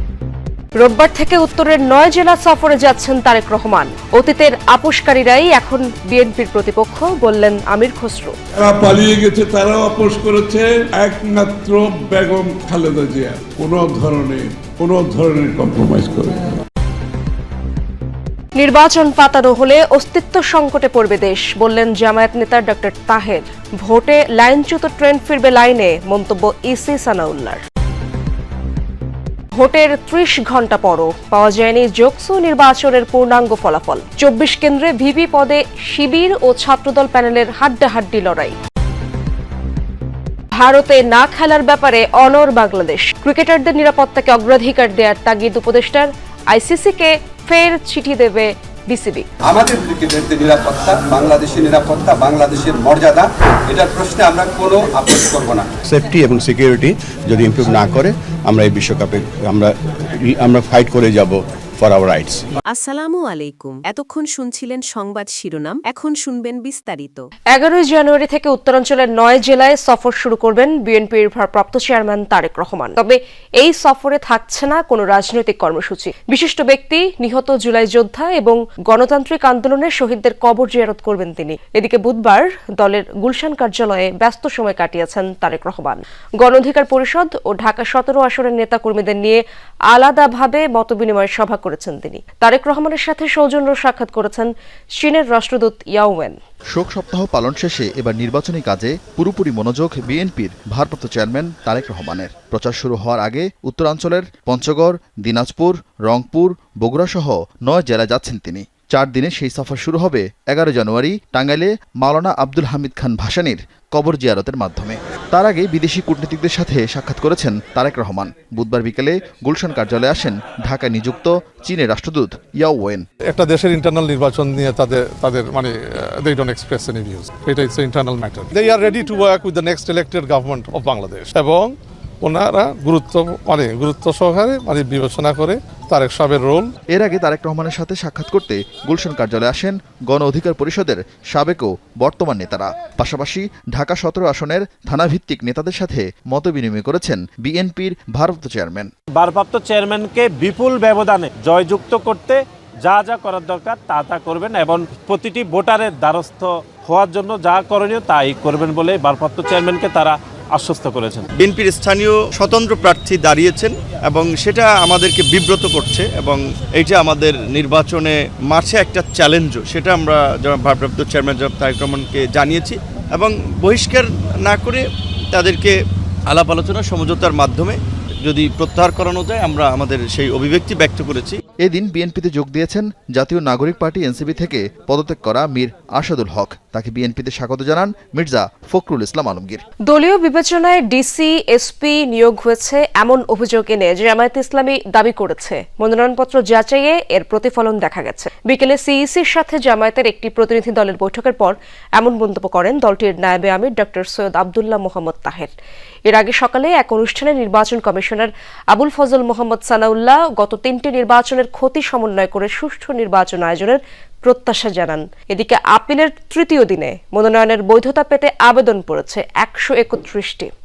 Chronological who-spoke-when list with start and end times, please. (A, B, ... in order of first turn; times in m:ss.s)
0:00.8-0:08.4 A
0:08.6-0:16.4 B
0:18.6-0:27.6 A
0:29.6-0:38.6 A
0:40.6-0:49.3 A
0:49.5-0:55.7 C
0:56.2-0:56.9 D
0:57.4-0:58.0 D
0:58.7-0:59.1 C
1:00.4-1:00.8 D
1:01.9-1:02.3 D
1:02.7-1:07.2 E
1:07.5-1:36.4 A
1:36.7-2:03.1 F
2:03.3-2:05.7 G
2:06.2-2:11.7 G
2:12.2-2:16.7 G
2:16.9-2:28.9 F
2:29.2-2:41.2 H
2:41.4-2:55.8 I
2:56.3-3:01.4 I
3:01.6-3:09.6 F
3:09.9-3:25.5 A
3:26.1-3:40.5 A